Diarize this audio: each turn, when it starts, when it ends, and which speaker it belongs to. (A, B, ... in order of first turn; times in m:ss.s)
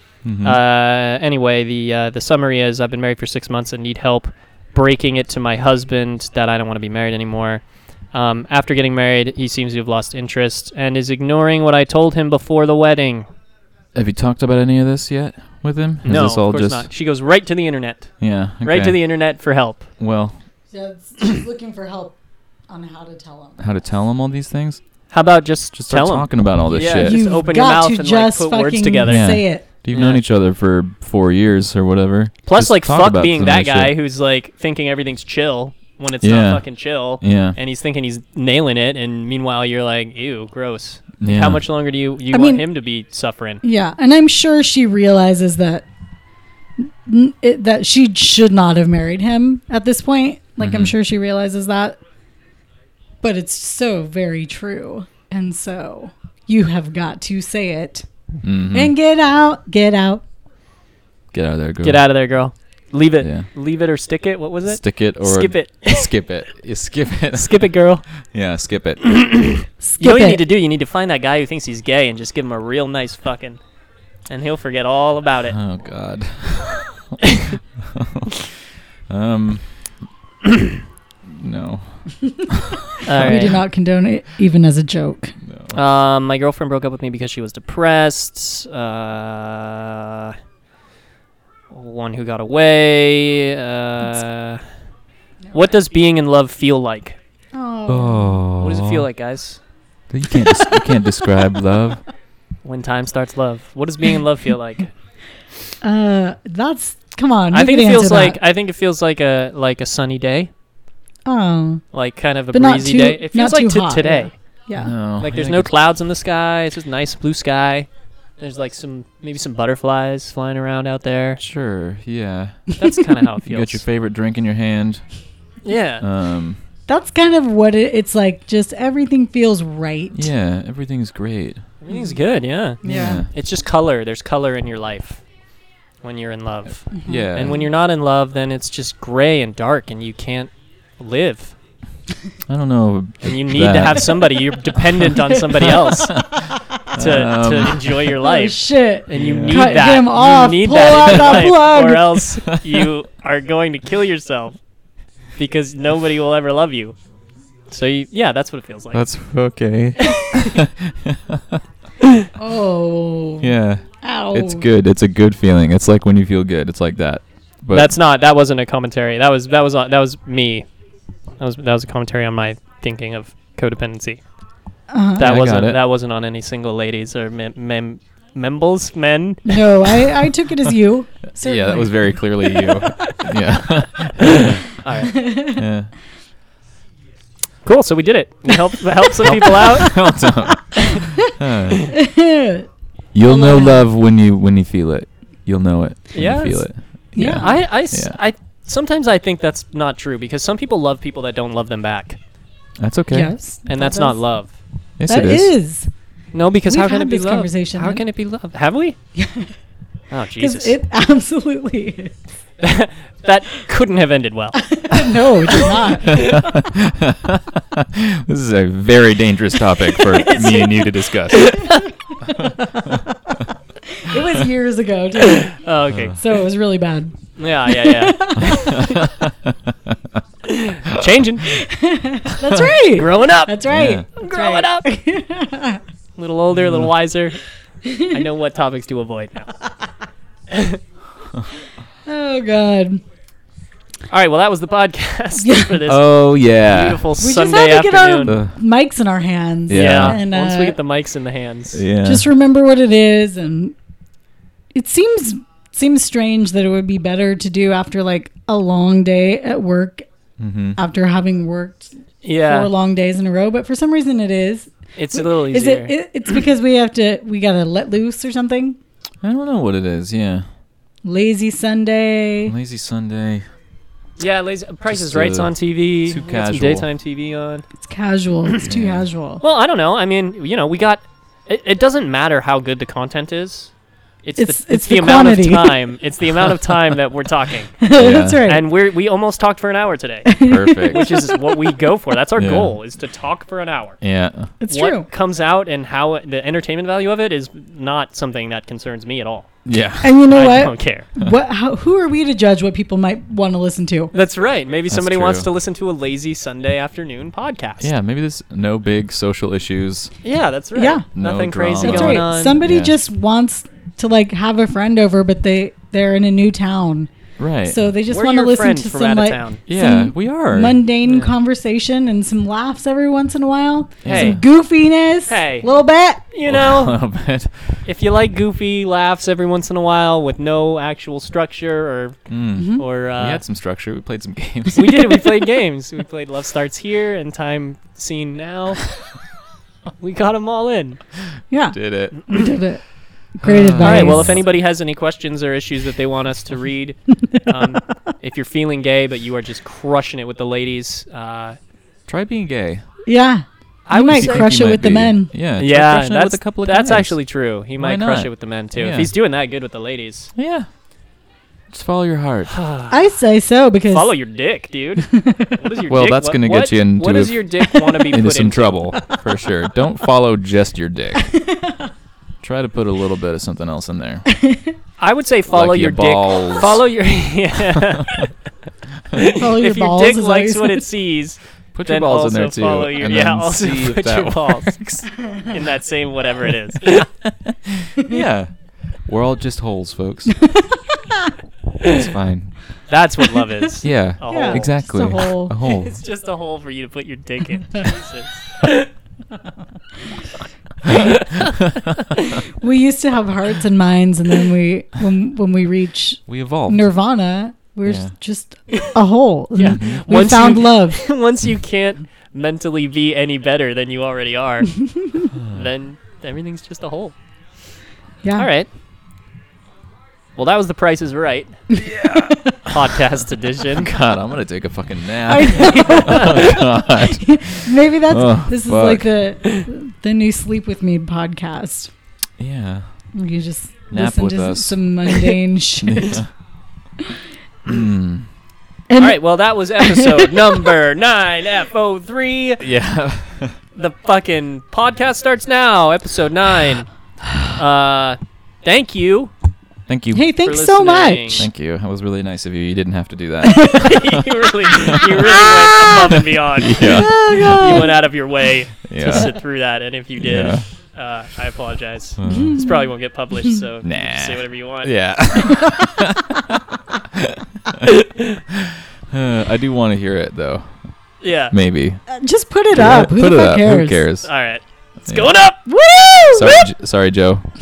0:00.2-0:00.6 A
0:00.4-0:13.3 B
0:14.0-0:16.9 A
0:16.0-0:19.9 B
0:18.2-0:19.0 A
0:20.0-0:20.4 A
0:20.7-0:22.2 C
0:22.7-0:23.7 C
0:23.6-0:24.8 A
0:25.1-0:30.2 B
0:25.8-0:27.2 A
0:26.9-0:29.6 C
0:29.0-0:33.9 A
0:32.4-0:43.6 B
0:36.2-0:36.6 A
0:37.2-0:37.6 A
0:41.2-0:41.6 A
0:42.3-0:42.6 C
0:43.6-0:45.8 C
0:47.1-0:52.0 C
0:50.6-0:50.9 A
0:53.2-0:58.1 C
0:58.4-0:58.9 A
0:58.7-1:00.2 C
1:01.3-1:02.0 A
1:01.8-1:06.1 B
1:03.2-1:03.5 A
1:04.7-1:07.7 A
1:07.3-1:08.0 B
1:08.3-1:09.1 A
1:09.0-1:13.6 B
1:09.8-1:10.4 C
1:14.3-1:15.6 B
1:15.5-1:17.2 A
1:17.3-1:17.5 B
1:17.8-1:18.4 A
1:19.1-1:19.7 A
1:20.5-1:20.7 B
1:21.3-1:23.5 A
1:23.0-1:23.6 B
1:23.2-1:25.3 C
1:25.4-1:25.8 A
1:25.7-1:30.4 B
1:31.7-1:34.6 B
1:35.5-1:37.2 B
1:37.5-1:38.4 C
1:37.9-1:39.1 A
1:38.6-1:39.6 B
1:40.1-1:42.0 A
1:42.6-1:44.9 B
1:45.8-1:48.4 C
1:47.5-1:50.5 B
1:51.3-1:51.8 C
1:51.9-1:54.3 B
1:52.5-1:55.0 C
1:54.8-1:55.7 A
1:55.2-1:57.9 B
1:58.4-2:01.4 B
2:01.4-2:02.7 A
2:02.8-2:03.8 B
2:03.4-2:05.0 A
2:05.6-2:06.0 B
2:06.0-2:06.6 A
2:06.9-2:10.3 C
2:10.1-2:11.6 A
2:11.8-2:15.2 B
2:12.8-2:13.2 C
2:12.8-2:13.3 A
2:16.0-2:21.6 B
2:17.0-2:17.3 C
2:17.0-2:17.6 A
2:22.5-2:24.4 A
2:23.2-2:26.2 B
2:25.7-2:28.0 A
2:27.0-2:34.6 B
2:28.2-2:32.4 C
2:29.2-2:29.7 A
2:32.5-2:32.9 A
2:35.4-2:37.0 B
2:37.7-2:39.0 B
2:38.9-2:41.6 A
2:40.0-2:40.6 B
2:42.0-2:42.3 B
2:42.4-2:44.6 C
2:43.4-2:47.9 A
2:47.7-2:50.7 B
2:51.4-2:54.2 B
2:54.9-2:55.3 C
2:55.2-2:55.8 A
2:55.2-3:00.1 B
2:59.4-3:02.1 C
3:01.4-3:04.6 A
3:04.2-3:05.2 B
3:05.1-3:05.6 C
3:05.6-3:05.9 A
3:07.6-3:10.0 B
3:09.2-3:12.0 A
3:09.7-3:10.3 C
3:10.8-3:11.0 B
3:11.9-3:12.7 C
3:13.1-3:18.2 A
3:13.2-3:13.8 C
3:16.1-3:16.7 B
3:17.2-3:17.6 C
3:17.2-3:22.2 B
3:22.8-3:23.3 A
3:23.1-3:24.2 C
3:23.7-3:24.5 B
3:25.0-3:25.5 A
3:25.1-3:25.9 C
3:26.3-3:29.0 B
3:26.7-3:28.0 C
3:29.2-3:29.5 C
3:30.1-3:30.8 B
3:30.4-3:32.1 C
3:32.6-3:34.7 B
3:34.6-3:36.4 C
3:35.7-3:36.4 B
3:36.1-3:41.6 A
3:40.0-3:41.8 B
3:41.7-3:42.6 C
3:43.9-3:45.6 C
3:45.4-3:46.2 B
3:45.9-3:46.2 A
3:46.2-3:49.0 C
3:47.4-3:48.9 B
3:48.4-3:49.3 A
3:50.5-3:51.6 B
3:51.5-3:55.8 C
3:53.0-3:53.6 B
3:53.7-3:54.1 A
3:54.2-3:55.0 B
3:56.2-3:57.4 B
3:57.8-3:58.2 C
3:58.1-3:59.5 B
4:00.5-4:00.8 B
4:02.1-4:03.0 C
4:04.1-4:08.3 B
4:05.4-4:05.8 C
4:05.9-4:07.1 A
4:07.2-4:10.8 C
4:08.2-4:08.6 A
4:09.7-4:10.2 A
4:09.7-4:11.8 B
4:11.7-4:12.3 A
4:12.0-4:13.8 C
4:14.7-4:20.1 C
4:20.4-4:20.8 A
4:20.8-4:28.8 C
4:22.2-4:22.7 B
4:25.0-4:25.9 B
4:29.2-4:30.5 A
4:31.0-4:32.6 C
4:32.4-4:33.4 A
4:34.2-4:37.7 B
4:34.9-4:36.9 A
4:37.8-4:39.4 C
4:38.6-4:39.1 A
4:39.4-4:47.8 B
4:44.4-4:45.8 C
4:47.8-4:48.7 C
4:47.9-4:48.5 A
4:48.4-4:54.0 B
4:50.3-4:51.7 C
4:50.4-4:51.0 A
4:52.4-4:52.7 A
4:54.0-4:54.5 A
4:54.6-4:55.1 C
4:54.7-4:59.5 B
4:59.6-5:00.1 A
5:00.0-5:04.1 C
5:00.3-5:01.1 B
5:04.1-5:07.9 B
5:04.9-5:05.5 A
5:07.8-5:10.1 A
5:10.2-5:12.6 B
5:10.8-5:11.1 C
5:11.2-5:12.9 A
5:11.8-5:17.1 C
5:17.4-5:17.8 A
5:17.7-5:26.2 C
5:18.1-5:19.6 B
5:19.7-5:20.8 A
5:21.0-5:21.3 B
5:24.0-5:24.4 A
5:24.1-5:24.4 B
5:25.3-5:25.7 B
5:26.3-5:27.0 B
5:26.5-5:27.8 A
5:27.9-5:32.2 B
5:32.3-5:35.3 A
5:32.6-5:32.8 C
5:32.8-5:33.4 B
5:34.7-5:38.8 B
5:40.0-5:41.0 B
5:41.5-5:42.8 C
5:41.7-5:42.2 A
5:42.2-5:42.5 B
5:43.4-5:44.4 C
5:43.4-5:44.4 A
5:43.8-5:51.6 B
5:52.1-5:52.8 A
5:53.1-5:55.3 C
5:53.9-5:54.6 B
5:54.1-5:57.2 A
5:55.6-6:00.3 B
5:57.8-5:59.1 A
6:00.4-6:00.7 A
6:01.7-6:02.5 A
6:02.5-6:03.0 B
6:02.9-6:04.2 C
6:03.9-6:08.9 B
6:05.0-6:05.6 C
6:05.9-6:11.3 A
6:11.2-6:11.9 C
6:12.4-6:14.3 A
6:14.3-6:14.7 C
6:15.0-6:18.3 B
6:15.5-6:16.8 A
6:17.8-6:18.3 A
6:19.1-6:24.7 B
6:19.3-6:20.9 C
6:21.7-6:25.1 A
6:25.5-6:27.1 B
6:26.9-6:28.5 A
6:29.0-6:30.4 A
6:30.4-6:31.3 C
6:31.8-6:32.5 A
6:32.9-6:34.7 B
6:33.8-6:35.9 A
6:34.3-6:35.6 C
6:35.6-6:38.9 B
6:40.9-6:42.4 B
6:41.4-6:42.0 A
6:42.5-6:51.1 C
6:46.3-6:46.9 A
6:47.9-6:48.1 A
6:49.6-6:54.8 B
6:49.6-6:50.0 A
6:54.8-6:55.3 C
6:55.3-6:55.7 A
6:55.5-6:57.1 B
6:58.2-6:58.5 C
6:58.4-6:58.7 B
7:00.4-7:01.6 B
7:01.7-7:02.5 A
7:01.7-7:02.7 C
7:02.7-7:03.9 B
7:03.7-7:09.1 A
7:05.2-7:11.9 C
7:05.7-7:06.6 B
7:12.4-7:12.9 A
7:13.2-7:16.2 C
7:13.9-7:14.8 A
7:15.8-7:16.3 A
7:17.6-7:18.3 A
7:18.9-7:19.2 C
7:19.0-7:22.6 B
7:19.8-7:20.7 C
7:22.6-7:23.6 A
7:23.8-7:26.9 B
7:27.5-7:29.3 B
7:29.9-7:30.4 A
7:30.1-7:31.5 C
7:30.4-7:31.5 B
7:31.4-7:37.9 A
7:33.4-7:34.0 C
7:33.7-7:44.9 B
7:36.8-7:38.0 C
7:38.8-7:39.3 A
7:40.2-7:40.6 A
7:42.2-7:42.7 A
7:42.3-7:42.7 C
7:43.8-7:48.0 A
7:47.8-7:48.4 B
7:48.5-7:50.7 A
7:51.2-7:51.6 B
7:51.5-7:52.0 A
7:52.1-7:54.0 C
7:52.7-7:54.3 A
7:54.2-7:55.6 B
7:55.1-7:55.3 A
7:55.7-7:56.7 C
7:56.3-7:57.5 A